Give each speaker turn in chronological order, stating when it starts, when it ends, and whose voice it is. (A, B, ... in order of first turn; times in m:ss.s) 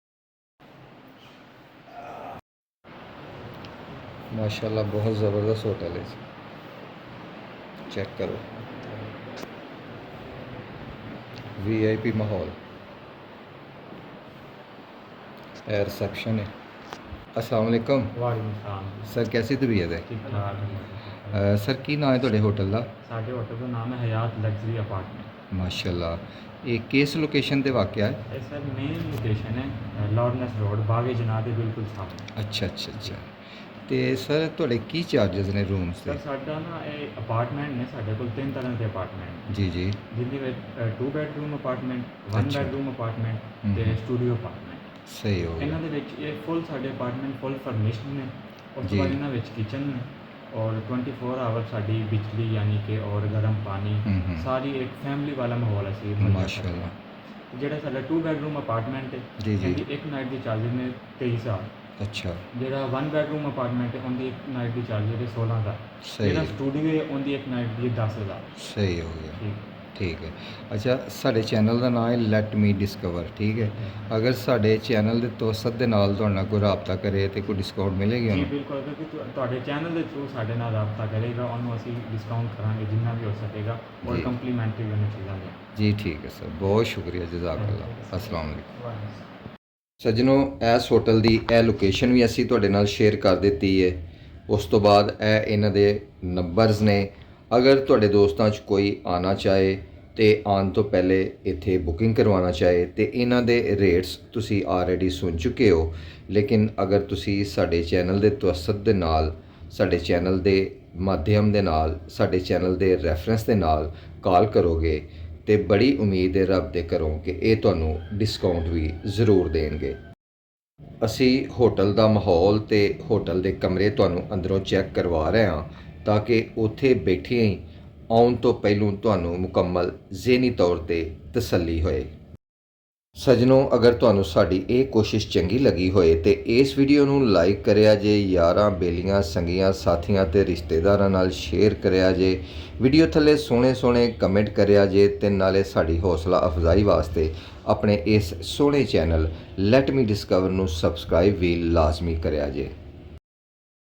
0:04.3-0:06.2 A
0:07.9-0:08.4 A
0:11.6-0:12.6 A
0:15.7-0:16.5 A
0:17.4-0:18.2 A
0:18.1-0:19.2 B
0:19.1-0:20.1 A
0:20.0-0:21.5 B
0:21.3-0:22.9 A
0:23.0-0:25.3 B
0:25.5-0:28.2 A
0:28.3-0:32.3 B
0:32.4-0:33.3 A
0:33.9-0:36.2 A
0:36.0-0:39.5 B
0:39.5-0:40.0 A
0:40.1-0:44.9 B
0:42.3-0:42.8 A
0:43.6-0:44.0 A
0:45.1-0:45.8 A
0:45.6-0:56.8 B
0:48.8-0:49.2 A
0:54.1-0:54.5 A
0:56.2-0:57.0 A
0:57.5-1:01.7 B
0:59.4-0:59.8 A
1:02.0-1:02.4 A
1:02.5-1:08.5 B
1:06.0-1:06.6 A
1:08.6-1:09.4 A
1:09.4-1:09.7 B
1:10.0-1:18.5 A
1:18.3-1:25.7 B
1:24.0-1:24.3 A
1:25.8-1:28.7 A
1:27.5-1:29.2 B
1:30.0-2:00.0 A
2:01.0-2:12.1 A
2:13.2-2:32.7 A